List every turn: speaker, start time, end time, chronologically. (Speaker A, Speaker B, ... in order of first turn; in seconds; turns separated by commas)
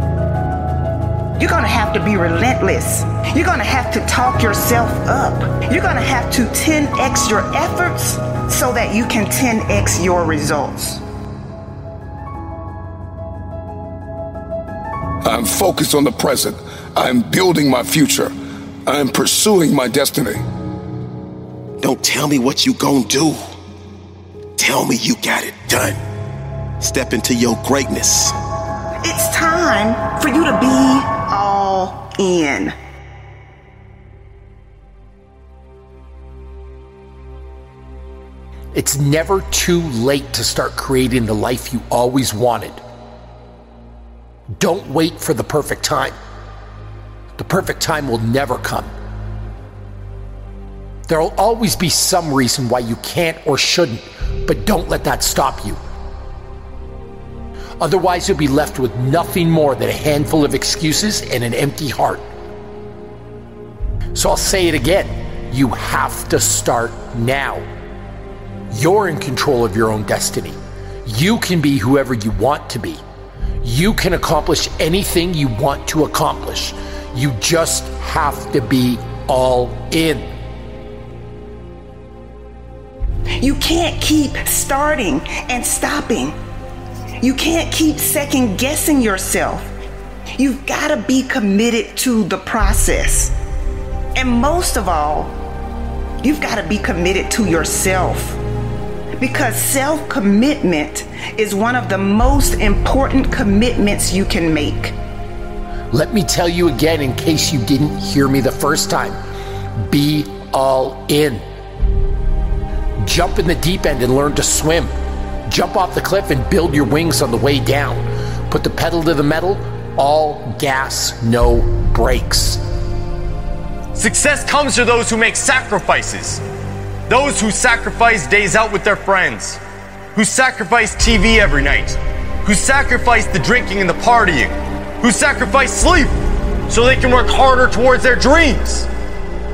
Speaker A: 1.4-11.0, Speaker B: 15.2-18.3, Speaker B: 18.9-20.4, Speaker C: 21.8-23.4, Speaker C: 24.6-26.0, Speaker C: 26.8-28.3, Speaker A: 29.0-32.8, Speaker D: 38.7-42.8, Speaker D: 44.6-46.2, Speaker D: 47.4-48.9, Speaker D: 51.1-55.8, Speaker D: 57.8-62.2, Speaker D: 64.2-67.7, Speaker D: 68.7-73.0, Speaker D: 73.6-80.3, Speaker A: 83.4-86.3, Speaker A: 87.2-89.7, Speaker A: 90.4-93.3, Speaker A: 94.2-95.3, Speaker A: 96.2-98.4, Speaker A: 99.2-105.0, Speaker D: 105.9-109.2, Speaker D: 109.9-111.5, Speaker D: 113.0-114.9, Speaker D: 115.5-122.6, Speaker E: 124.0-126.4, Speaker E: 127.1-129.6, Speaker E: 130.2-136.2, Speaker E: 136.7-138.9